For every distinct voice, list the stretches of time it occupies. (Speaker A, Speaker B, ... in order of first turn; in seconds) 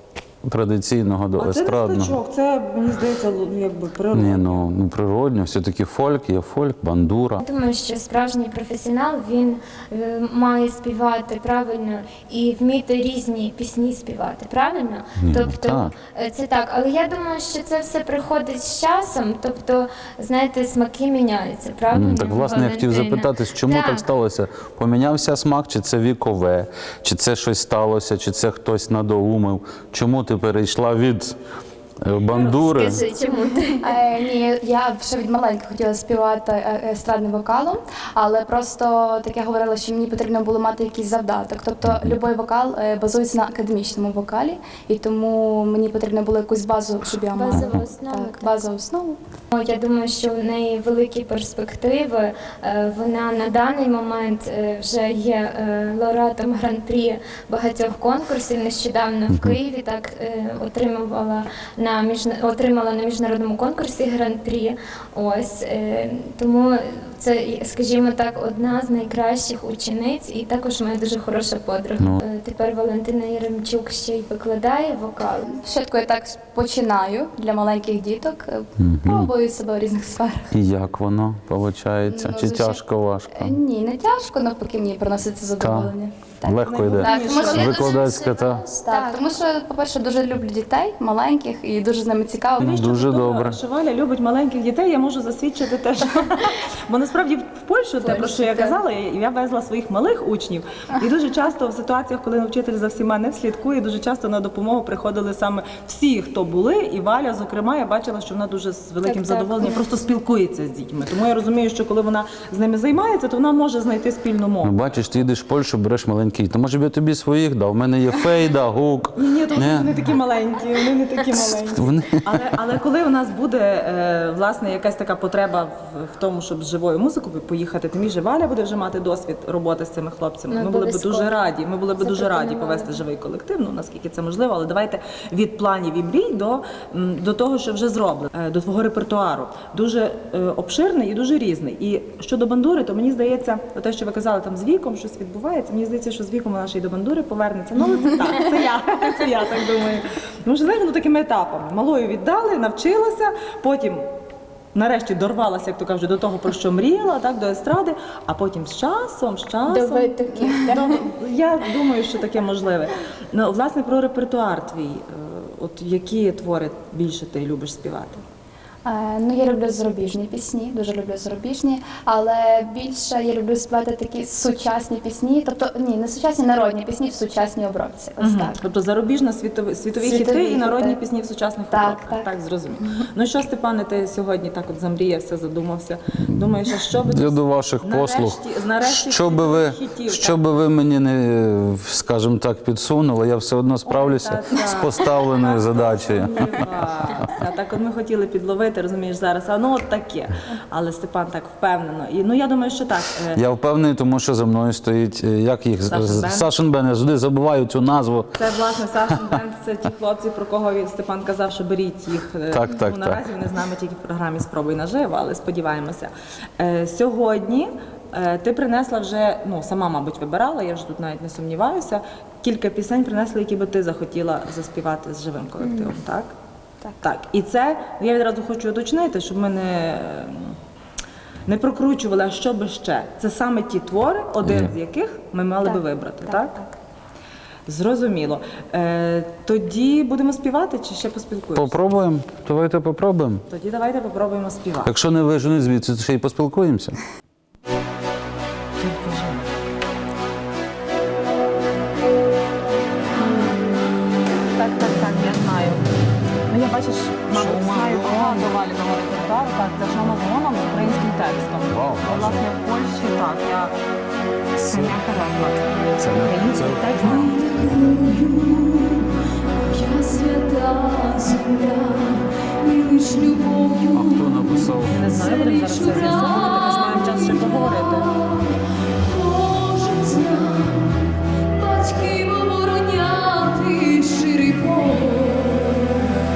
Speaker A: 0.4-2.2, 4.1-7.4, 15.2-15.9, 21.9-31.4, 32.0-33.0, 41.9-42.2, 47.5-47.8, 59.3-59.6, 72.0-72.2, 78.8-79.3, 80.5-83.6, 85.6-85.9, 86.4-88.7, 92.6-93.6, 114.6-120.0, 121.7-122.3, 187.1-197.3, 203.3-208.3, 212.5-213.2, 234.4-234.7, 241.6-243.4, 244.8-247.0, 257.3-258.6, 261.7-262.4, 264.6-265.0, 266.0-267.3, 273.9-275.0
Speaker B: 1.4-4.7, 86.5-88.0, 92.6-114.9, 119.2-154.1, 154.7-168.2, 178.2-190.4, 193.8-203.4, 205.9-206.5, 208.3-226.3, 227.0-230.6, 231.5-236.6, 237.7-241.8, 243.5-244.9, 248.8-249.5, 254.5-255.8, 256.5-263.8, 264.7-265.7, 266.2-267.4, 274.9-278.1
Speaker C: 7.4-24.1, 32.3-33.9, 47.3-48.6, 49.5-75.5, 87.0-89.3, 98.0-98.8, 109.0-109.8, 130.5-131.4, 132.0-133.0, 159.7-161.1
Speaker D: 33.8-49.2, 75.6-80.5, 82.1-87.8, 88.8-92.8, 160.2-160.7, 168.8-178.6, 180.0-181.0, 181.7-182.3, 235.6-236.7
Speaker E: 267.0-286.2